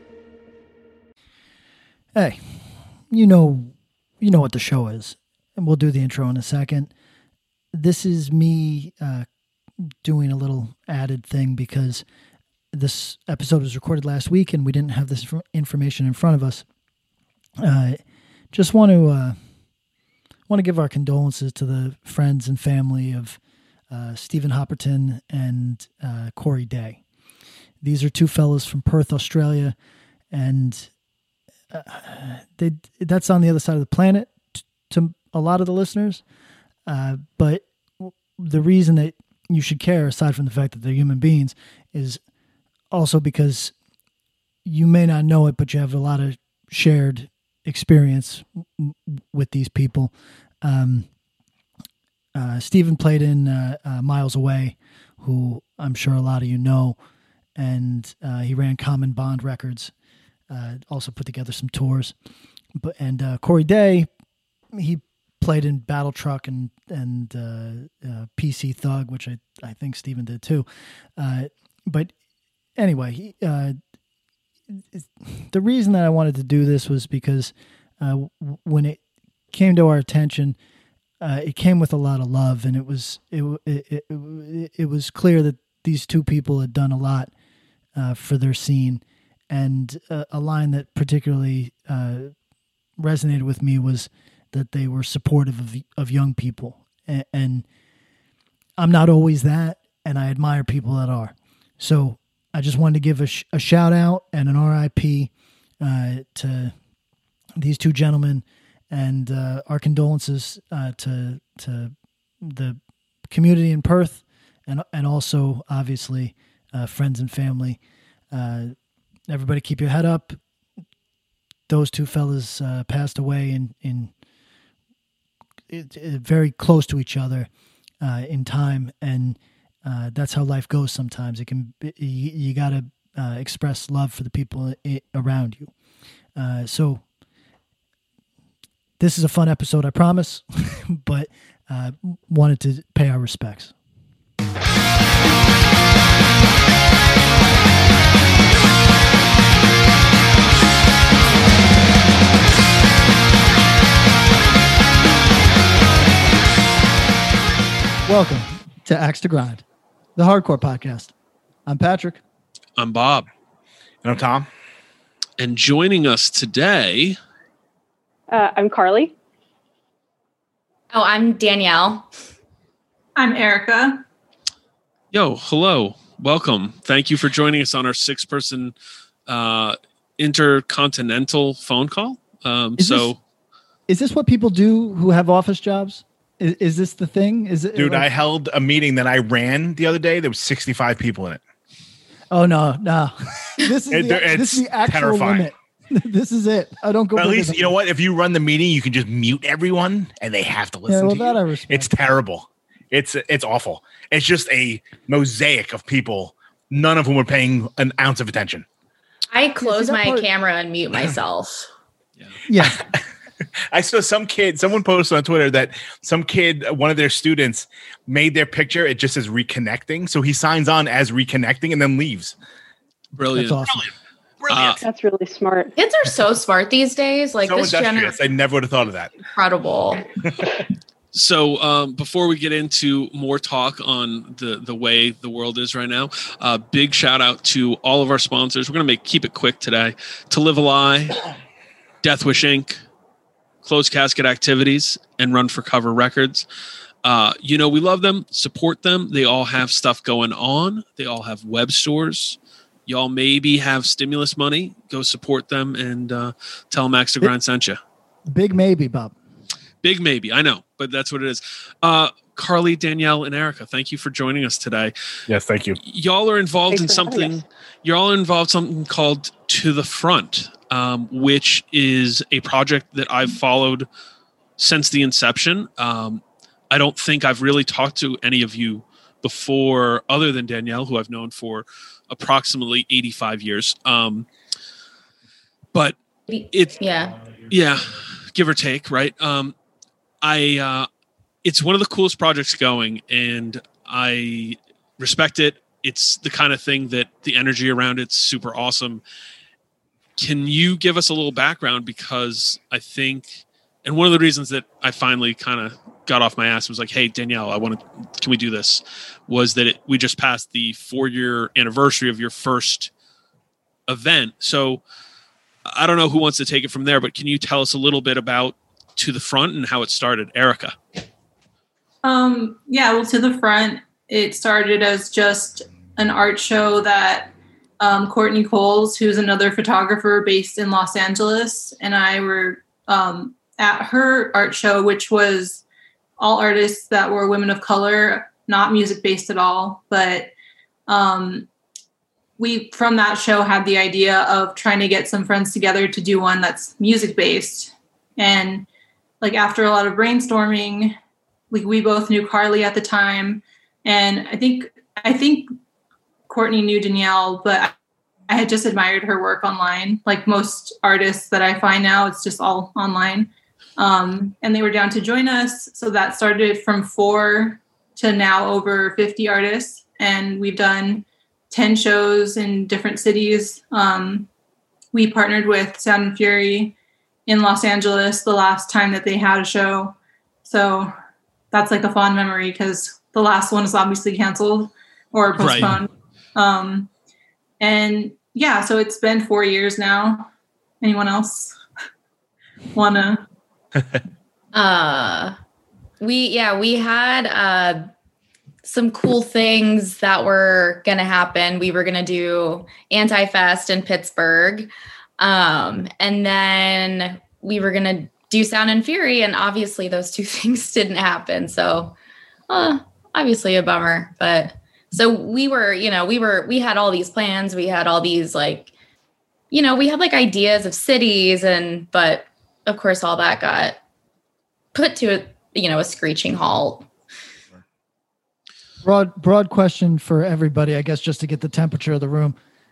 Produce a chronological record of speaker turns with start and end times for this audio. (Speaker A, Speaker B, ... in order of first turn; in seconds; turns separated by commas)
Speaker A: 2.1-2.4, Speaker A: 3.1-6.9, Speaker A: 7.7-9.3, Speaker A: 9.8-12.0, Speaker A: 12.7-16.6, Speaker A: 17.6-18.0, Speaker A: 18.5-19.4, Speaker A: 20.5-23.4, Speaker A: 23.9-27.0, Speaker A: 27.8-29.8, Speaker A: 30.3-30.9, Speaker A: 31.7-36.2, Speaker A: 36.9-42.2, Speaker A: 42.9-43.7, Speaker A: 44.6-51.1, Speaker A: 52.3-57.0, Speaker A: 57.6-59.9, Speaker A: 60.5-62.1, Speaker A: 62.8-64.1, Speaker A: 64.7-72.1, Speaker A: 72.8-73.8, Speaker A: 74.7-79.0, Speaker A: 79.5-80.6, Speaker A: 81.2-87.3, Speaker A: 88.0-92.3, Speaker A: 93.0-97.7, Speaker A: 98.8-106.7, Speaker A: 107.6-117.8, Speaker A: 118.3-118.8, Speaker A: 119.3-120.4, Speaker A: 121.7-124.1, Speaker A: 125.7-127.5, Speaker A: 128.0-135.7, Speaker A: 136.4-137.0, Speaker A: 139.0-143.7, Speaker A: 158.1-159.6, Speaker A: 160.2-161.1, Speaker A: 161.7-162.2, Speaker B: 162.8-163.3, Speaker C: 164.0-164.5, Speaker B: 165.4-167.2, Speaker D: 168.3-169.1, Speaker E: 170.9-172.1, Speaker F: 173.2-174.0, Speaker B: 175.1-178.7, Speaker B: 179.3-183.2, Speaker A: 182.8-183.1, Speaker A: 183.9-188.1, Speaker C: 187.8-191.4, Speaker A: 192.3-197.7, Speaker C: 193.9-195.5, Speaker C: 197.2-208.7, Speaker A: 200.9-201.9, Speaker E: 209.3-211.7, Speaker A: 209.6-210.3, Speaker A: 212.5-212.8, Speaker C: 212.6-212.9, Speaker C: 213.7-222.3, Speaker B: 223.2-223.6, Speaker A: 223.3-223.8, Speaker C: 224.4-224.8, Speaker B: 224.5-224.8, Speaker D: 224.8-225.7, Speaker E: 225.8-228.2, Speaker C: 227.4-229.1, Speaker E: 229.3-230.1, Speaker B: 231.1-241.2, Speaker B: 242.0-242.8, Speaker B: 243.6-246.5, Speaker B: 247.0-257.8, Speaker A: 258.3-259.1, Speaker B: 259.8-264.9, Speaker C: 265.3-265.8, Speaker B: 265.8-273.9, Speaker D: 266.7-267.4, Speaker B: 274.6-284.3, Speaker E: 286.3-287.1, Speaker B: 286.5-286.8, Speaker B: 287.5-289.6, Speaker B: 290.2-290.9, Speaker B: 291.4-299.0, Speaker B: 300.2-312.9, Speaker B: 313.9-314.8, Speaker B: 315.7-320.8, Speaker F: 322.0-335.6, Speaker F: 336.2-340.3, Speaker F: 340.9-341.5, Speaker F: 342.4-348.7, Speaker F: 349.2-351.0, Speaker F: 351.5-355.5, Speaker F: 356.3-357.7, Speaker F: 358.3-374.3, Speaker F: 374.9-376.8, Speaker F: 377.3-380.9, Speaker F: 381.5-386.9, Speaker B: 385.4-385.8, Speaker F: 387.6-390.3, Speaker F: 390.8-391.6, Speaker F: 392.7-393.2, Speaker E: 394.5-395.4, Speaker E: 396.0-397.9, Speaker E: 398.6-404.7, Speaker E: 405.2-411.9, Speaker E: 412.5-418.7, Speaker E: 419.5-423.8, Speaker E: 424.7-426.9, Speaker A: 428.8-432.4